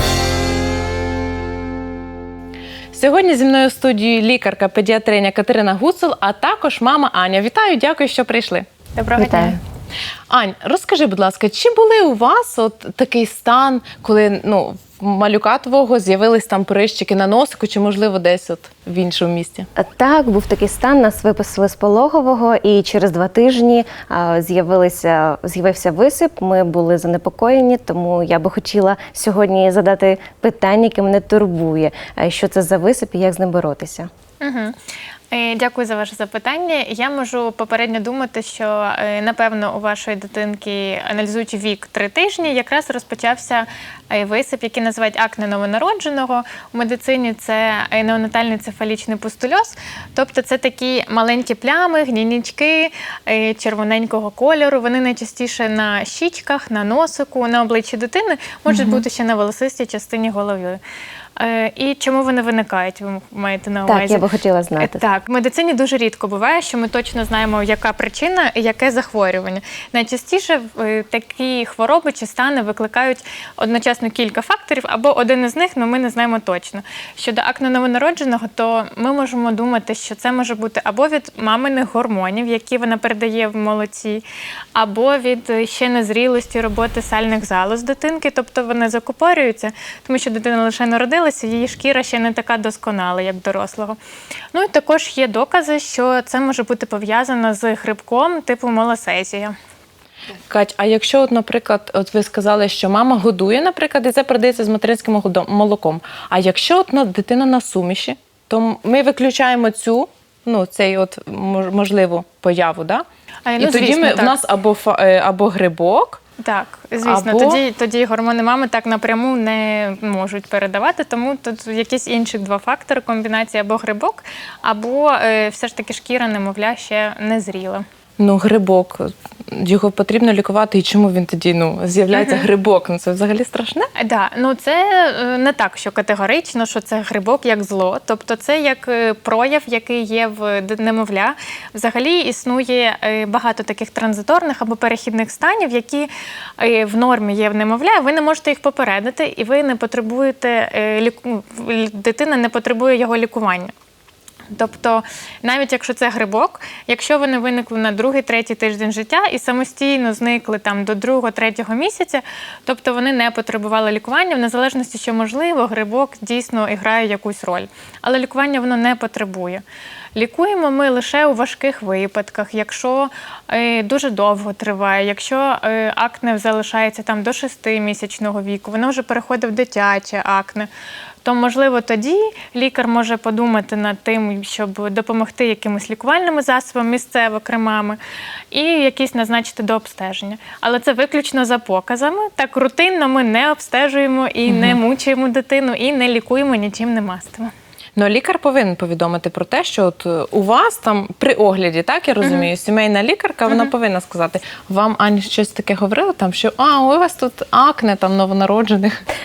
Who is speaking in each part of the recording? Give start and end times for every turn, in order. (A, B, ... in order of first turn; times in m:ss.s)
0:02.9-0:08.6 A
0:09.0-0:09.6 B
0:09.2-0:09.6 C
0:10.3-0:19.7 A
0:19.8-0:34.1 C
0:34.4-0:34.8 B
0:35.3-1:00.8 B
0:58.7-0:59.0 A
1:01.4-1:04.2 B
1:03.8-1:05.0 C
1:04.8-1:24.2 B
1:24.8-1:34.0 B
1:34.5-1:39.5 B
1:40.5-1:53.0 A
1:53.4-1:54.4 B
1:53.6-1:56.2 A
1:56.4-2:07.8 B
1:57.0-1:57.6 A
2:08.2-2:13.9 A
2:12.1-2:12.5 B
2:14.0-2:33.7 B
2:34.5-2:49.6 B
2:50.2-3:00.7 B
3:01.2-3:08.0 B
3:08.5-3:17.5 B
3:14.5-3:14.8 A
3:18.0-3:29.0 A
3:22.2-3:22.5 B